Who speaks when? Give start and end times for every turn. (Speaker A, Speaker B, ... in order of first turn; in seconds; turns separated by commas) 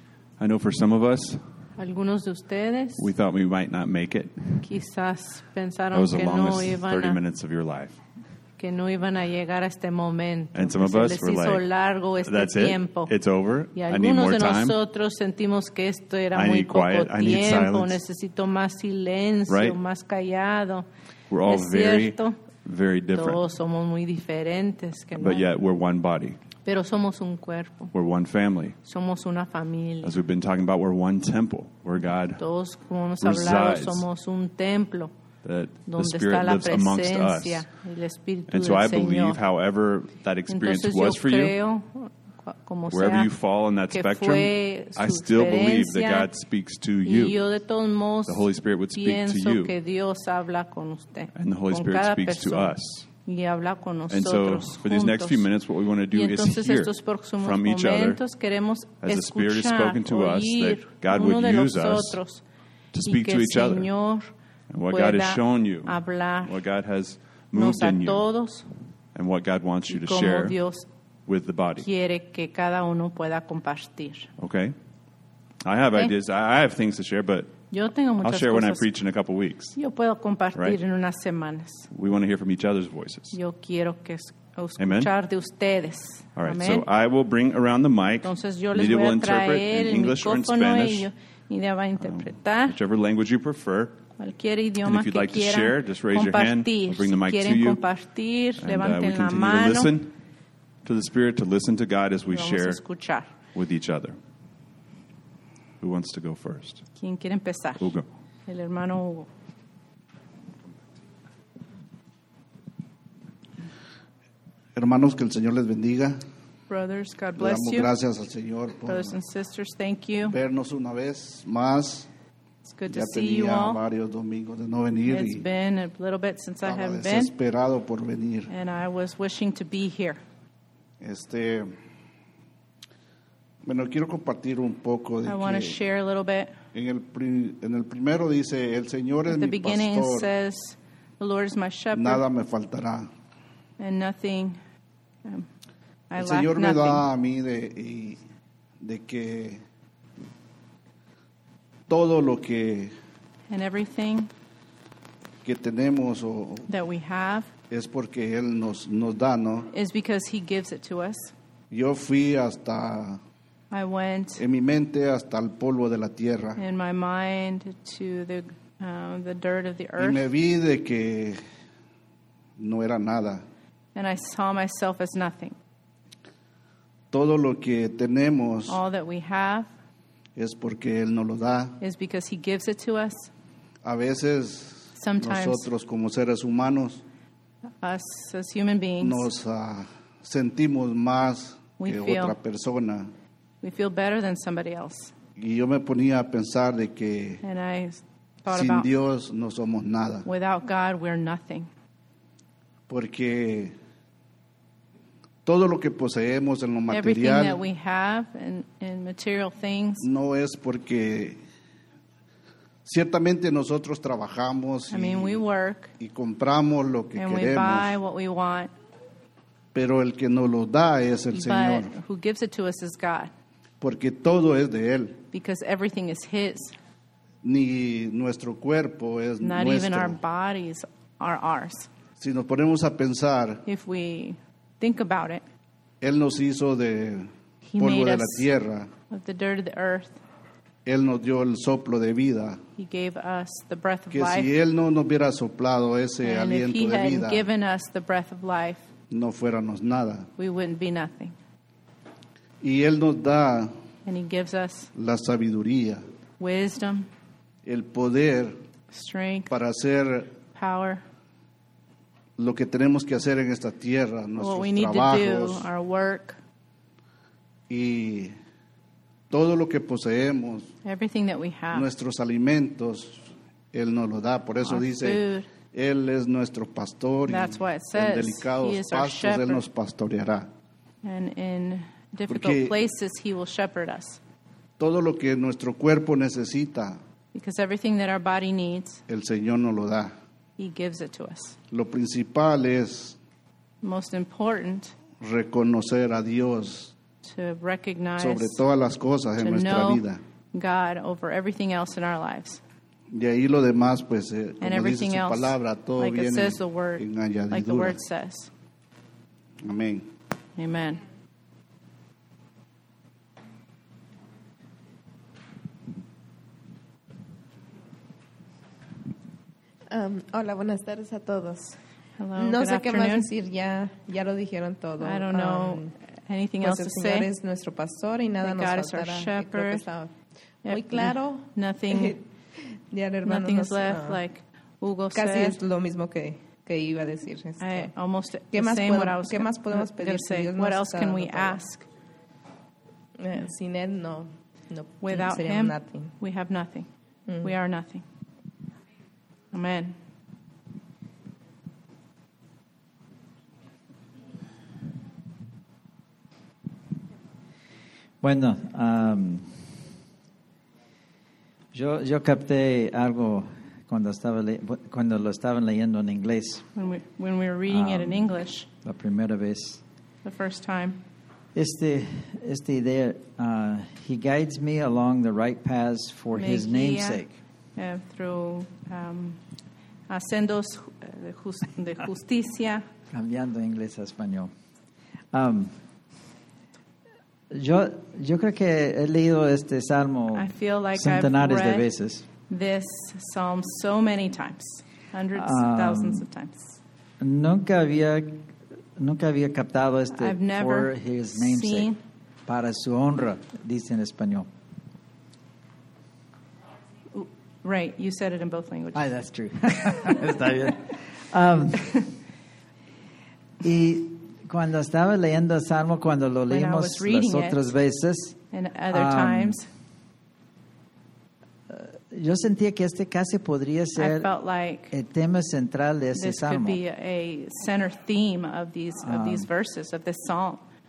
Speaker A: 0.4-1.6, Speaker B: 1.8-3.1, Speaker A: 3.0-4.7, Speaker B: 4.6-7.2, Speaker A: 5.9-8.0, Speaker B: 8.6-13.1, Speaker A: 10.5-11.6, Speaker A: 12.2-14.8, Speaker B: 13.7-20.9, Speaker A: 16.3-18.0, Speaker A: 19.5-19.8, Speaker A: 21.3-23.4, Speaker B: 21.4-22.4, Speaker B: 23.1-25.5, Speaker A: 25.1-26.4, Speaker B: 26.6-27.9, Speaker A: 27.9-28.8, Speaker B: 28.8-30.1, Speaker A: 30.0-32.4, Speaker B: 32.4-35.1, Speaker A: 33.2-34.0, Speaker A: 35.4-37.7, Speaker B: 35.9-39.4, Speaker A: 38.5-41.5, Speaker B: 40.5-43.4, Speaker A: 42.9-47.4, Speaker B: 43.9-46.3, Speaker B: 47.0-55.5, Speaker A: 48.2-49.7, Speaker A: 51.3-53.1, Speaker A: 54.1-58.2, Speaker B: 56.1-62.4, Speaker A: 59.0-62.2, Speaker A: 62.9-63.9, Speaker B: 63.0-64.3, Speaker A: 64.7-68.2, Speaker B: 64.9-66.6, Speaker B: 67.5-68.7, Speaker A: 69.1-70.6, Speaker B: 69.9-70.9, Speaker A: 71.2-71.9, Speaker B: 71.8-74.3, Speaker A: 74.4-74.7, Speaker A: 75.6-77.5, Speaker B: 77.7-78.9, Speaker A: 78.2-79.8, Speaker B: 79.8-81.9, Speaker A: 81.9-83.4, Speaker B: 83.3-86.9, Speaker A: 84.8-85.1, Speaker A: 86.3-91.1, Speaker B: 88.2-92.8, Speaker A: 92.0-94.0, Speaker B: 94.2-99.9, Speaker A: 94.8-97.8, Speaker A: 98.6-100.1, Speaker A: 100.8-102.8, Speaker B: 102.3-103.3, Speaker A: 103.5-104.2, Speaker A: 105.8-106.8, Speaker B: 107.0-107.9, Speaker A: 107.8-108.0, Speaker B: 108.5-109.3, Speaker C: 114.8-116.2, Speaker B: 116.7-117.9, Speaker C: 117.4-119.1, Speaker B: 118.8-120.3, Speaker C: 120.2-122.1, Speaker B: 122.6-123.8, Speaker C: 122.9-125.4, Speaker B: 125.1-127.3, Speaker C: 126.6-128.5, Speaker B: 128.5-130.2, Speaker C: 131.0-131.7, Speaker C: 133.6-135.8, Speaker B: 135.2-136.6, Speaker C: 136.7-140.3, Speaker B: 139.3-142.2, Speaker C: 141.9-143.1, Speaker B: 143.8-144.6, Speaker B: 146.1-147.1, Speaker C: 146.2-148.2, Speaker C: 148.8-149.6, Speaker C: 151.9-152.9, Speaker B: 153.5-154.3, Speaker C: 155.4-156.7, Speaker B: 156.7-157.5, Speaker C: 157.7-159.7, Speaker B: 159.7-161.3, Speaker C: 161.7-163.2, Speaker B: 163.7-164.4, Speaker C: 164.4-166.6, Speaker B: 166.6-170.3, Speaker C: 170.0-171.4, Speaker C: 172.6-173.4, Speaker B: 173.9-175.6, Speaker C: 177.1-178.8, Speaker B: 178.7-179.7, Speaker C: 180.3-181.8, Speaker B: 181.8-183.3, Speaker C: 183.8-187.0, Speaker B: 184.9-185.7, Speaker B: 187.8-189.3, Speaker C: 189.0-193.1, Speaker B: 191.8-192.3, Speaker B: 193.6-195.1, Speaker C: 195.4-197.4, Speaker B: 197.4-198.9, Speaker C: 198.5-200.3, Speaker B: 200.2-201.7, Speaker C: 202.9-203.7, Speaker C: 205.4-207.6, Speaker B: 206.9-210.1, Speaker C: 210.0-211.4, Speaker C: 212.8-215.4, Speaker B: 214.9-215.9, Speaker C: 216.0-218.0, Speaker B: 217.2-218.7, Speaker C: 219.7-221.9, Speaker B: 221.3-223.3, Speaker C: 223.8-225.2, Speaker B: 225.3-226.8, Speaker C: 227.4-230.2, Speaker B: 229.4-231.9, Speaker C: 232.2-233.6, Speaker B: 233.7-235.4, Speaker C: 236.0-238.9, Speaker B: 237.6-238.5, Speaker B: 239.1-240.2, Speaker C: 240.8-242.6, Speaker B: 242.8-244.5, Speaker C: 244.1-247.4, Speaker B: 246.2-248.9, Speaker C: 249.1-250.3, Speaker B: 250.4-251.3, Speaker C: 252.6-253.7, Speaker B: 254.1-254.9, Speaker C: 254.9-256.0, Speaker B: 256.4-257.1, Speaker C: 257.6-258.6, Speaker B: 258.9-259.5, Speaker C: 259.5-260.4, Speaker B: 260.5-261.0, Speaker C: 262.4-265.7, Speaker B: 264.4-266.4, Speaker C: 267.7-268.3, Speaker C: 269.3-270.7, Speaker B: 270.8-271.9, Speaker C: 271.7-280.5, Speaker B: 274.6-275.5, Speaker B: 277.2-279.6, Speaker B: 281.0-284.2, Speaker C: 282.3-282.7, Speaker C: 284.8-287.0, Speaker B: 287.3-289.0, Speaker C: 289.1-290.1, Speaker B: 290.6-291.6, Speaker C: 291.7-293.2, Speaker B: 293.8-294.9, Speaker C: 295.2-296.9, Speaker B: 297.2-298.6, Speaker C: 298.2-300.2, Speaker B: 299.4-302.6, Speaker C: 303.1-308.0, Speaker B: 304.6-308.5, Speaker C: 309.6-310.1, Speaker B: 310.6-311.0, Speaker D: 319.9-321.8, Speaker B: 322.2-323.3, Speaker D: 322.4-325.9, Speaker B: 325.0-327.3, Speaker D: 326.6-330.1, Speaker B: 328.4-329.8, Speaker D: 330.6-332.2, Speaker B: 330.6-332.2, Speaker D: 332.9-334.2, Speaker B: 333.2-335.6, Speaker D: 335.1-337.9, Speaker B: 337.6-341.9, Speaker D: 338.5-341.6, Speaker D: 343.2-346.1, Speaker B: 345.0-346.9, Speaker B: 347.4-348.0, Speaker B: 349.5-350.0, Speaker E: 358.2-359.7, Speaker E: 361.7-366.6, Speaker B: 366.7-368.7, Speaker E: 367.7-369.8, Speaker B: 370.2-371.0, Speaker E: 371.5-377.3, Speaker B: 376.3-377.2, Speaker B: 377.8-379.4, Speaker B: 380.1-382.9, Speaker E: 383.1-384.5, Speaker E: 385.3-385.8, Speaker E: 387.5-392.2, Speaker B: 390.3-391.9, Speaker B: 392.5-396.8, Speaker E: 395.3-396.2, Speaker E: 397.2-401.9, Speaker B: 400.1-402.0, Speaker E: 402.4-404.5, Speaker B: 407.1-409.1, Speaker E: 408.9-412.1, Speaker E: 413.6-418.4, Speaker B: 416.5-417.7, Speaker B: 418.5-419.6, Speaker E: 418.9-419.6, Speaker E: 421.7-424.3, Speaker B: 423.9-424.9, Speaker E: 424.9-426.8, Speaker B: 426.1-430.6, Speaker E: 429.0-429.5